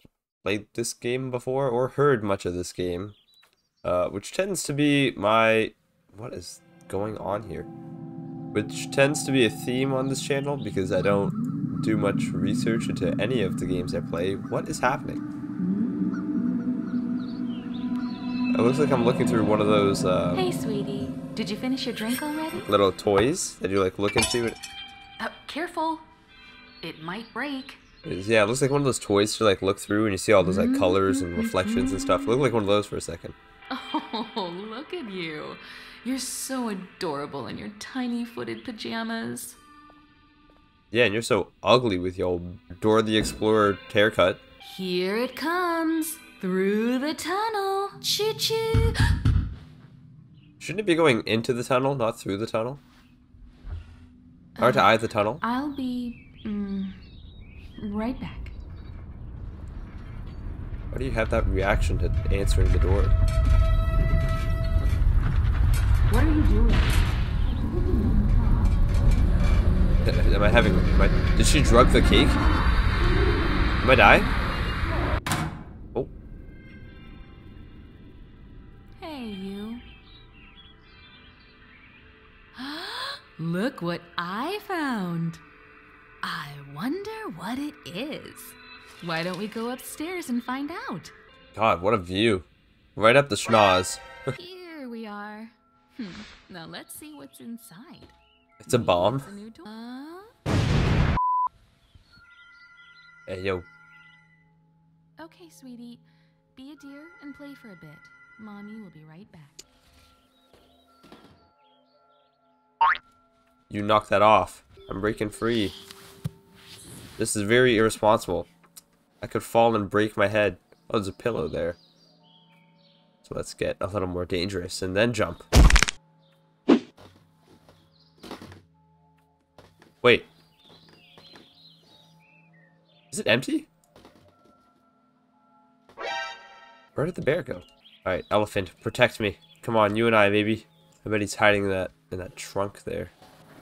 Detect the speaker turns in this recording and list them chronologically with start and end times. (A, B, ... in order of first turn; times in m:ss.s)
0:00.4-0:03.2 A
0:03.8-0:07.7 A
0:08.5-0:15.2 A
0:15.6-0:16.2 B
0:18.5-0:20.4 A
0:20.3-0:22.7 B
0:22.6-0:24.6 A
0:25.2-0:26.1 B
0:26.8-0:27.8 B
0:28.0-0:33.4 A
0:30.4-0:32.5 B
0:33.7-0:39.6 B
0:40.9-0:44.4 A
0:44.6-0:48.9 B
0:50.6-0:52.8 A
0:54.6-0:57.0 B
0:54.6-0:55.4 A
0:57.8-0:58.6 B
1:00.9-1:03.2 A
1:06.1-1:07.1 B
1:08.0-1:08.7 B
1:10.0-1:12.4 A
1:13.8-1:14.3 A
1:19.0-1:19.9 B
1:22.6-1:25.4 B
1:26.2-1:31.1 B
1:31.5-1:34.2 A
1:34.4-1:38.1 B
1:38.6-1:39.3 A
1:38.7-1:40.3 B
1:43.3-1:43.7 A
1:45.2-1:46.0 B
1:46.6-1:49.6 B
1:53.7-1:55.8 A
1:57.2-1:58.5 A
1:59.2-2:01.8 A
2:03.2-2:05.5 A
2:10.0-2:10.3 A
2:13.1-2:13.7 A
2:17.0-2:23.1 A